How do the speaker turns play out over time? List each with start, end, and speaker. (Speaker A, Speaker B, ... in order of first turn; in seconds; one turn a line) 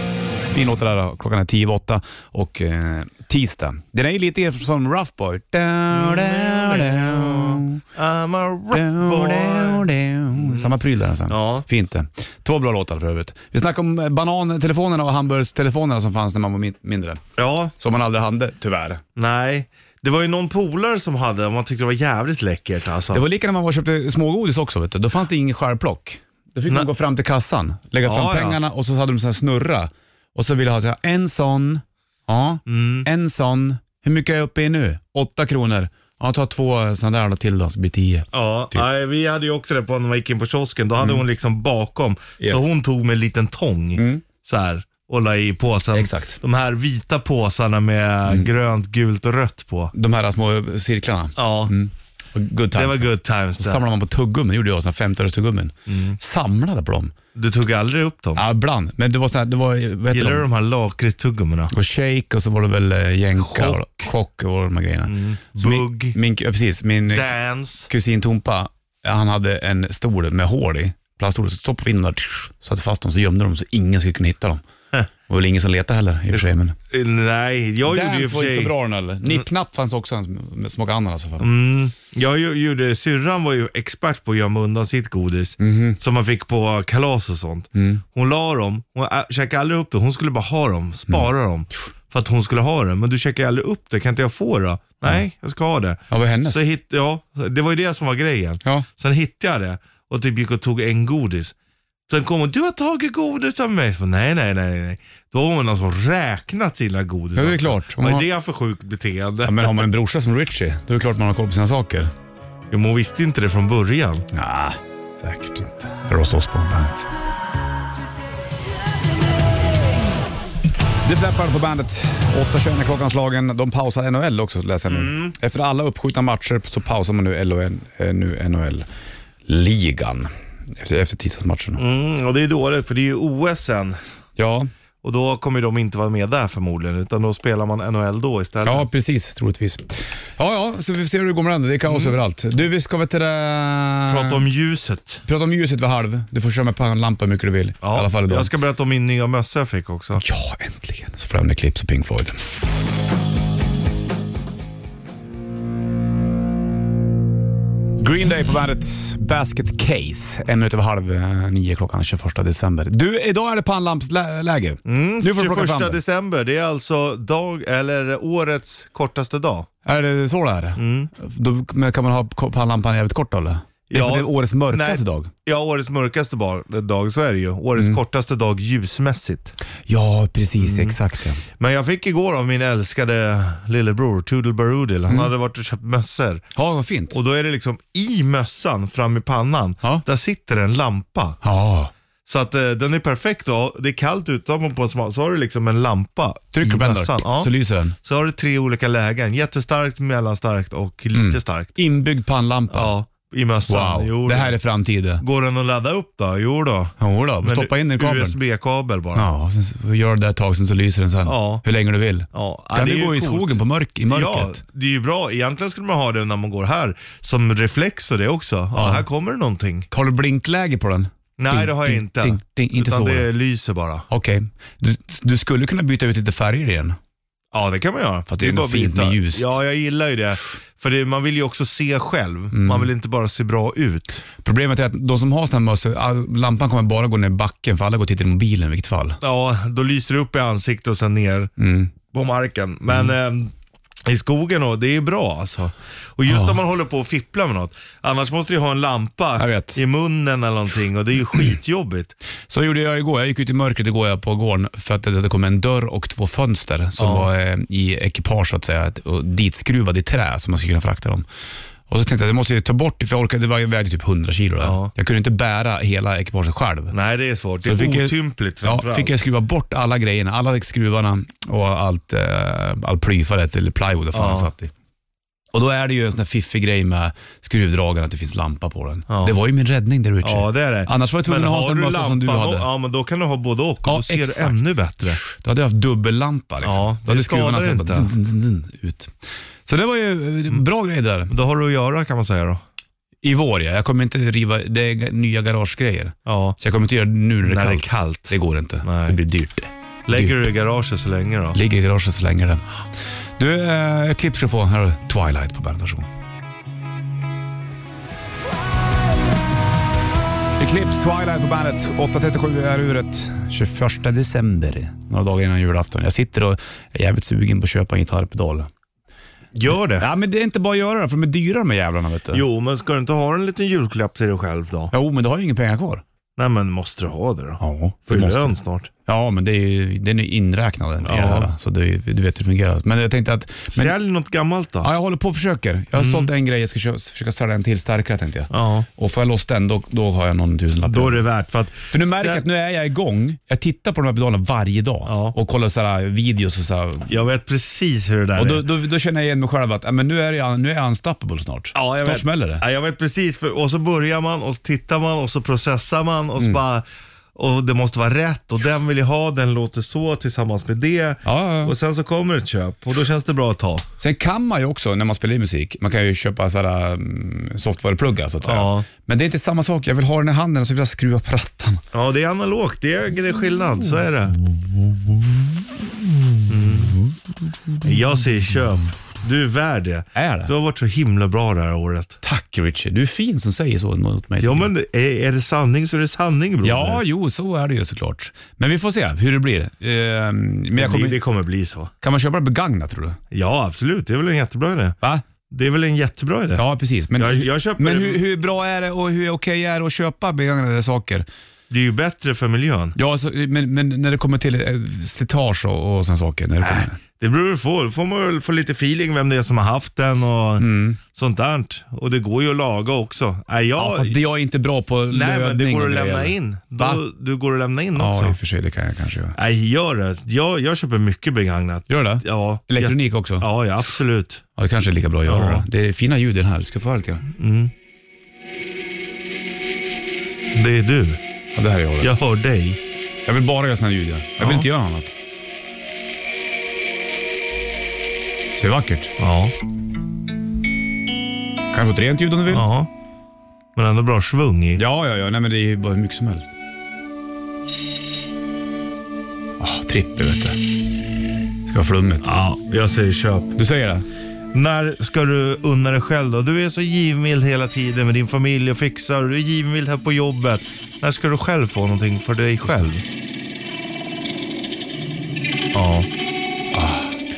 Speaker A: 0.5-7.8
Speaker B: 5.9-10.7
Speaker A: 8.7-17.2
Speaker B: 11.3-11.7
Speaker B: 17.4-17.7
Speaker A: 17.8-19.0
Speaker B: 19.1-23.2
Speaker A: 23.1-38.8
Speaker B: 28.0-28.6
Speaker B: 32.6-33.1
Speaker B: 38.3-49.9
Speaker A: 42.4-42.6
Speaker A: 44.0-44.2
Speaker A: 45.9-46.4
Speaker A: 49.9-57.1
Speaker B: 51.4-51.7
Speaker B: 52.7-53.8
Speaker B: 55.9-56.2
Speaker B: 57.3-58.4
Speaker A: 58.4-60.4
Speaker B: 60.1-61.7
Speaker A: 61.7-67.3
Speaker B: 63.4-64.1
Speaker B: 65.1-66.2
Speaker B: 67.1-67.9
Speaker A: 67.9-74.6
Speaker A: 75.3-76.8
Speaker B: 76.3-78.7
Speaker A: 77.8-81.5
Speaker B: 81.4-101.5
Speaker A: 85.6-86.0
Speaker A: 87.7-88.0
Speaker A: 96.1-96.6
Speaker B: 102.1-109.9
Speaker A: 107.3-108.3
Speaker A: 109.5-112.1
Speaker B: 112.7-114.2
Speaker A: 114.3-117.0
Speaker A: 121.0-128.9
Speaker B: 124.9-125.3
Speaker A: 129.4-131.8
Speaker B: 131.8-134.0
Speaker A: 134.4-134.7
Speaker B: 135.0-138.8
Speaker A: 138.6-144.4
Speaker B: 141.9-142.2
Speaker B: 144.1-145.2
Speaker A: 145.3-148.5
Speaker B: 147.8-150.2
Speaker A: 150.2-152.4
Speaker A: 158.0-166.0
Speaker B: 164.8-169.7
Speaker A: 169.8-175.3
Speaker B: 170.8-171.1
Speaker B: 173.9-179.5
Speaker A: 179.9-181.4
Speaker B: 180.6-180.9
Speaker B: 181.6-186.4
Speaker A: 186.5-187.2
Speaker B: 187.1-191.4
Speaker A: 191.4-191.9
Speaker B: 192.3-201.8
Speaker A: 196.5-197.9
Speaker A: 201.1-202.9
Speaker B: 202.7-204.6
Speaker A: 203.7-205.2
Speaker B: 205.2-209.3
Speaker A: 207.0-208.3
Speaker A: 209.1-214.6
Speaker B: 211.2-211.6
Speaker B: 212.3-219.9
Speaker A: 218.7-219.0
Speaker A: 219.9-223.3
Speaker B: 221.4-224.1
Speaker A: 224.1-227.0
Speaker B: 227.5-234.2
Speaker A: 228.3-229.5
Speaker A: 232.5-232.9
Speaker A: 234.4-239.2
Speaker B: 239.2-241.5
Speaker A: 241.6-241.9
Speaker B: 242.0-243.5
Speaker B: 244.0-252.1
Speaker A: 246.3-246.6
Speaker A: 249.4-249.8
Speaker A: 252.5-261.2
Speaker B: 257.0-257.3
Speaker A: 261.9-266.9
Speaker B: 264.6-264.9
Speaker B: 266.9-269.1
Speaker A: 267.6-274.7
Speaker B: 274.1-274.5
Speaker A: 275.5-282.7
Speaker B: 279.1-279.3
Speaker B: 280.2-285.2
Speaker A: 283.8-289.1
Speaker B: 286.6-288.1
Speaker A: 289.6-291.3
Speaker B: 291.3-292.6
Speaker A: 293.2-300.4
Speaker B: 296.2-296.6
Speaker B: 297.4-299.2
Speaker B: 300.1-301.6
Speaker A: 301.5-302.8
Speaker A: 303.4-306.1
Speaker A: 310.6-318.7
Speaker B: 319.5-320.1
Speaker A: 320.0-322.4
Speaker B: 322.3-324.9
Speaker A: 324.9-326.0
Speaker B: 326.4-328.9
Speaker A: 327.6-328.5
Speaker A: 329.1-333.9
Speaker B: 331.0-331.5
Speaker B: 333.7-334.9
Speaker A: 334.8-341.2
Speaker B: 335.9-336.3
Speaker B: 338.5-338.9
Speaker B: 340.8-342.4
Speaker A: 341.9-347.1
Speaker B: 345.1-345.3
Speaker B: 347.1-348.6
Speaker A: 348.4-352.6
Speaker B: 351.7-363.8
Speaker A: 361.2-361.7
Speaker A: 364.0-371.8
Speaker B: 368.4-368.9
Speaker B: 371.9-374.3
Speaker B: 376.5-376.9
Speaker B: 377.8-382.2
Speaker A: 380.1-380.5
Speaker A: 382.2-384.7
Speaker B: 384.4-387.0
Speaker A: 386.6-391.2
Speaker B: 390.8-391.9
Speaker A: 392.0-393.2
Speaker B: 393.3-394.9
Speaker B: 395.5-396.6
Speaker A: 396.5-401.2
Speaker B: 397.1-398.2
Speaker B: 401.7-402.9
Speaker A: 402.9-407.0
Speaker B: 406.6-414.2
Speaker A: 410.6-411.0
Speaker A: 413.8-417.0
Speaker B: 415.1-418.4
Speaker A: 417.9-419.4
Speaker B: 419.3-424.4
Speaker A: 421.9-423.5
Speaker A: 424.6-427.2
Speaker B: 425.2-425.7
Speaker B: 427.4-427.7
Speaker B: 430.5-431.2
Speaker A: 431.5-432.1
Speaker B: 432.0-432.8
Speaker A: 433.2-435.1
Speaker B: 434.4-434.7
Speaker A: 438.6-439.1
Speaker B: 439.2-439.5
Speaker A: 441.7-442.7
Speaker B: 442.5-442.9
Speaker B: 443.8-444.8
Speaker A: 444.8-446.5
Speaker A: 449.6-450.6
Speaker A: 451.6-452.4
Speaker B: 452.2-453.5
Speaker A: 453.6-454.1
Speaker B: 454.5-463.0
Speaker B: 465.7-466.1
Speaker A: 466.7-467.1